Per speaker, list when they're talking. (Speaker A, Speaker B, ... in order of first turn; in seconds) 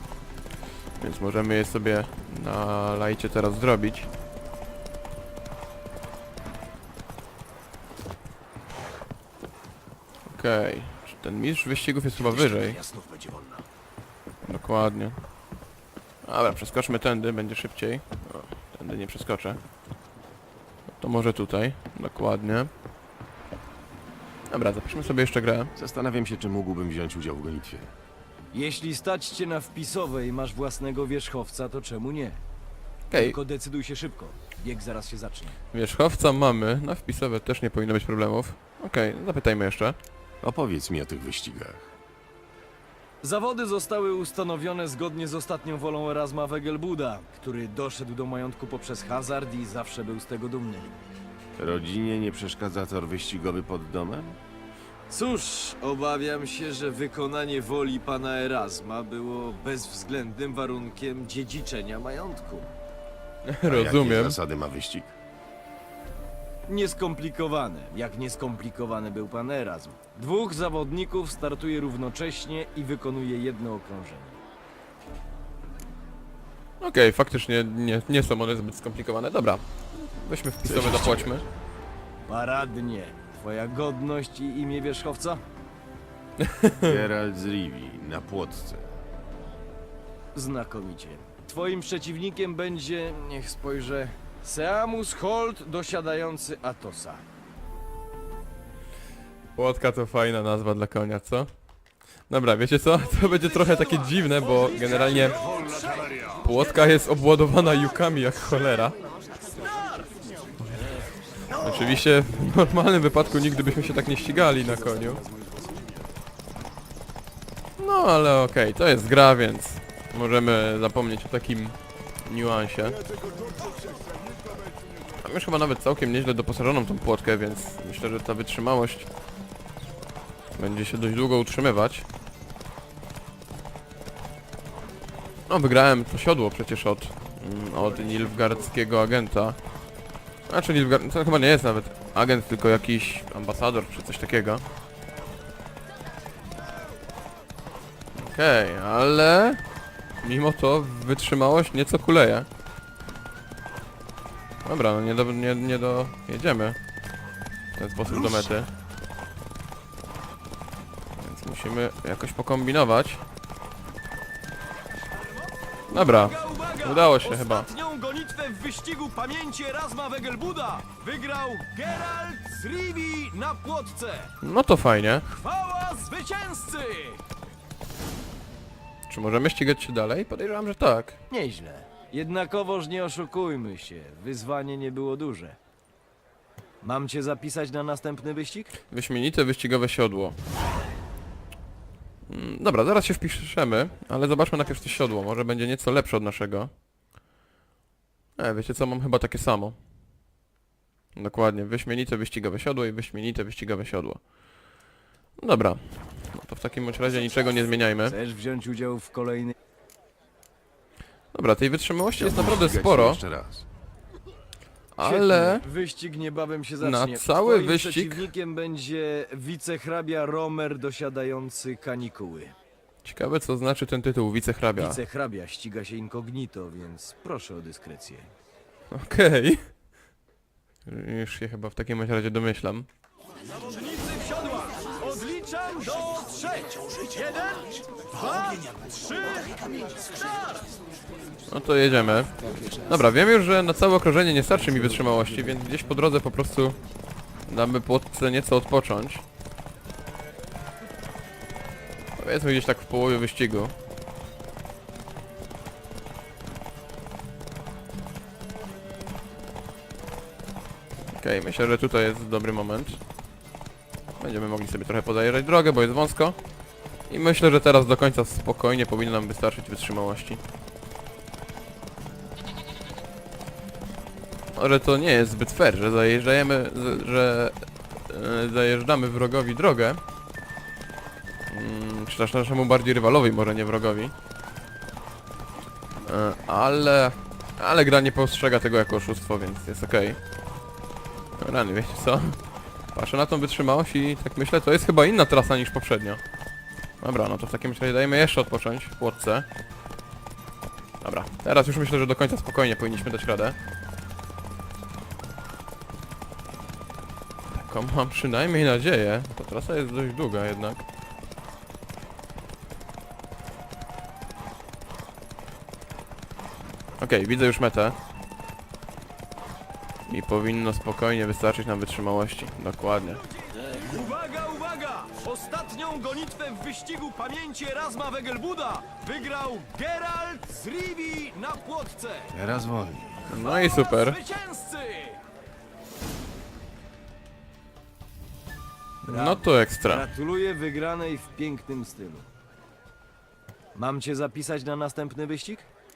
Speaker A: 1.0-4.1, 10.3-12.8, 14.4-15.2, 16.2-19.6, 21.0-22.7, 24.5-25.7, 33.1-33.4, 35.7-40.0, 63.5-64.4, 76.8-81.4, 86.4-87.0, 99.5-101.5, 102.3-105.4, 106.4-109.0, 111.5-115.2, 117.8-123.0, 125.2-129.1, 130.5-132.1, 135.5-139.6, 140.5-144.6, 148.1-149.6, 150.2-152.5, 154.6-156.8, 157.8-158.7, 161.2-163.2, 165.9-167.7, 174.4-175.3, 179.1-181.2, 188.9-190.4, 192.3-196.7, 198.4-199.8, 201.1-204.2, 205.4-208.1, 211.3-213.2, 214.9-215.6, 216.8-218.3, 223.0-225.0, 228.9-229.7, 230.8-232.9, 241.5-246.8, 247.5-249.2, 252.2-253.7, 261.1-263.0, 264.2-266.4, 267.1-270.4, 274.5-280.0, 281.5-284.1, 286.0-290.2, 291.4-292.4, 292.9-296.2, 297.0-299.4, 301.0-303.6, 307.5-310.8, 317.0-317.9, 320.1-323.2, 333.3-334.2, 339.0-340.1
Speaker B: 12.7-13.6, 28.5-32.4, 33.1-35.6, 43.2-51.0, 55.1-62.7, 66.7-74.4, 82.3-85.4, 90.3-97.2, 103.1-106.4, 109.5-110.1, 165.9-174.3, 175.3-177.2, 181.3-185.6, 186.8-188.7, 208.1-209.5, 215.0-222.5, 224.8-228.3, 233.6-240.7, 323.3-332.3, 333.3-335.2, 339.1-342.3, 343.7-345.7
Speaker C: 25.8-27.9, 40.4-41.9, 51.6-54.4, 63.6-65.1, 80.6-81.4, 86.8-89.0, 212.2-213.7, 332.3-333.2